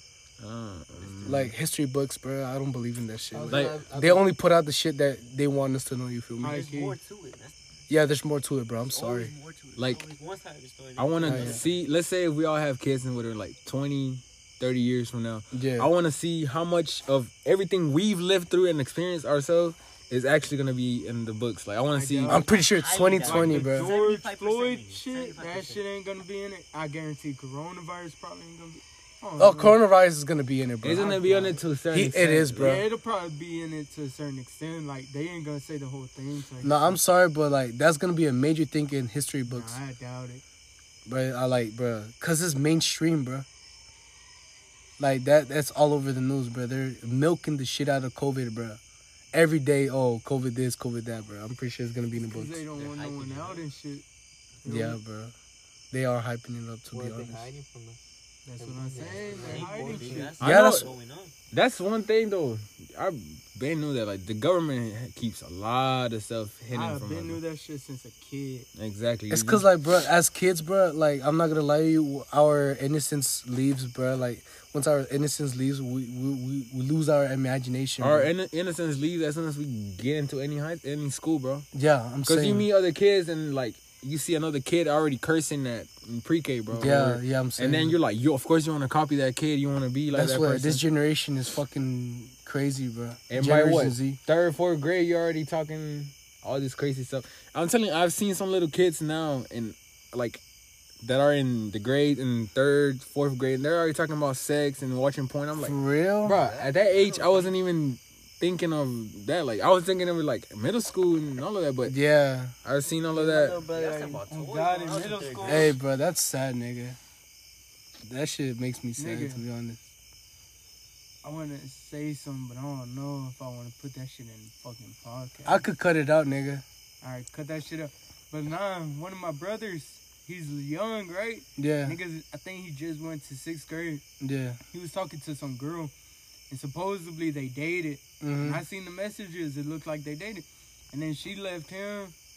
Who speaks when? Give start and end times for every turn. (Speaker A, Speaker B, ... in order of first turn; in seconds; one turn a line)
Speaker A: 0.4-1.5
Speaker B: 1.0-1.5
Speaker C: 1.3-6.6
Speaker D: 3.3-4.3
Speaker A: 3.5-3.8
Speaker E: 6.4-7.0
Speaker B: 6.4-7.8
Speaker C: 7.9-9.3
Speaker B: 8.8-11.8
Speaker A: 9.8-10.1
Speaker A: 11.0-22.4
Speaker C: 11.2-11.6
Speaker C: 15.5-15.9
Speaker E: 21.9-22.5
Speaker C: 22.3-23.9
Speaker B: 22.3-25.9
Speaker E: 23.1-29.8
Speaker C: 29.4-31.2
Speaker A: 30.8-32.8
Speaker E: 31.0-31.6
Speaker C: 31.9-32.9
Speaker E: 32.6-37.0
Speaker C: 36.6-39.8
Speaker E: 39.5-40.4
Speaker C: 41.1-43.5
Speaker C: 45.0-48.8
Speaker C: 49.3-52.6
Speaker E: 52.2-54.0
Speaker B: 52.7-53.6
Speaker E: 54.6-55.0
Speaker C: 54.6-55.3
Speaker C: 55.9-57.5
Speaker D: 56.9-58.0
Speaker E: 58.5-60.3
Speaker D: 58.6-60.5
Speaker B: 59.0-61.3
Speaker A: 60.4-60.9
Speaker C: 60.4-60.9
Speaker A: 61.5-67.4
Speaker E: 66.7-68.7
Speaker A: 68.8-69.7
Speaker C: 69.3-78.3
Speaker A: 78.0-81.7
Speaker C: 81.7-82.7
Speaker A: 82.3-90.8
Speaker C: 86.7-88.0
Speaker C: 90.1-94.2
Speaker A: 93.3-100.4
Speaker A: 101.0-112.0
Speaker C: 105.6-106.4
Speaker B: 106.3-107.5
Speaker C: 111.8-112.5
Speaker A: 112.6-113.7
Speaker B: 113.2-115.8
Speaker E: 113.7-115.8
Speaker C: 115.4-117.0
Speaker C: 118.1-119.8
Speaker E: 119.0-119.4
Speaker E: 121.2-125.7
Speaker C: 125.5-126.6
Speaker E: 127.0-134.0
Speaker C: 131.6-132.0
Speaker C: 134.2-134.6
Speaker E: 134.7-135.9
Speaker E: 136.5-142.2
Speaker C: 138.2-138.6